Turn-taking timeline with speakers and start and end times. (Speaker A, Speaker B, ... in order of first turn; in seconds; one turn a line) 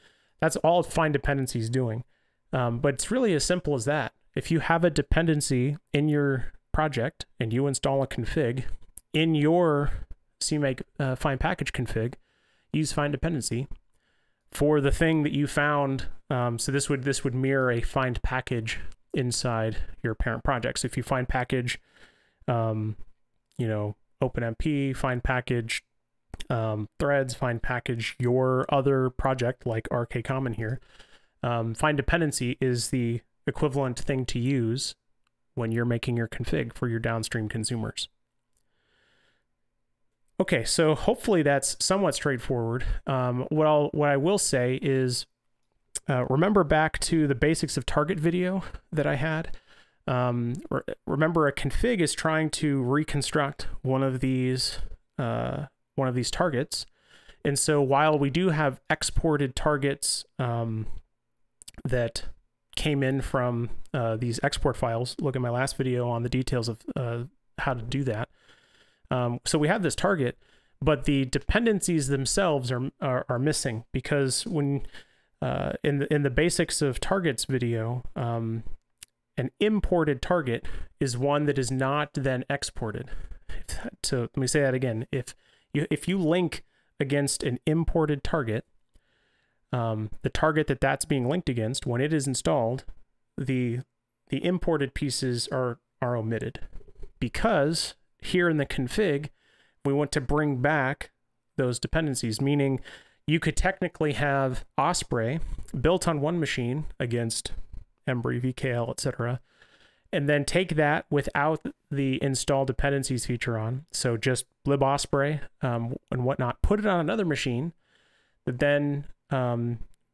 Speaker A: 0.4-12.2
Speaker A: 12.7-13.7
Speaker A: 14.5-21.8
Speaker A: 22.5-23.0
Speaker A: 23.6-25.9
Speaker A: 26.5-30.8
Speaker A: 31.4-35.0
Speaker A: 35.6-38.1
Speaker A: 40.4-45.3
Speaker A: 46.1-49.5
Speaker A: 50.1-56.9
Speaker A: 57.4-60.9
Speaker A: 61.9-68.3
Speaker A: 69.1-74.9
Speaker A: 75.4-78.7
Speaker A: 79.4-88.7
Speaker A: 89.7-92.9
Speaker A: 93.4-96.7
Speaker A: 97.2-99.3
Speaker A: 99.8-107.5
Speaker A: 108.1-109.4
Speaker A: 110.1-117.7
Speaker A: 118.5-119.8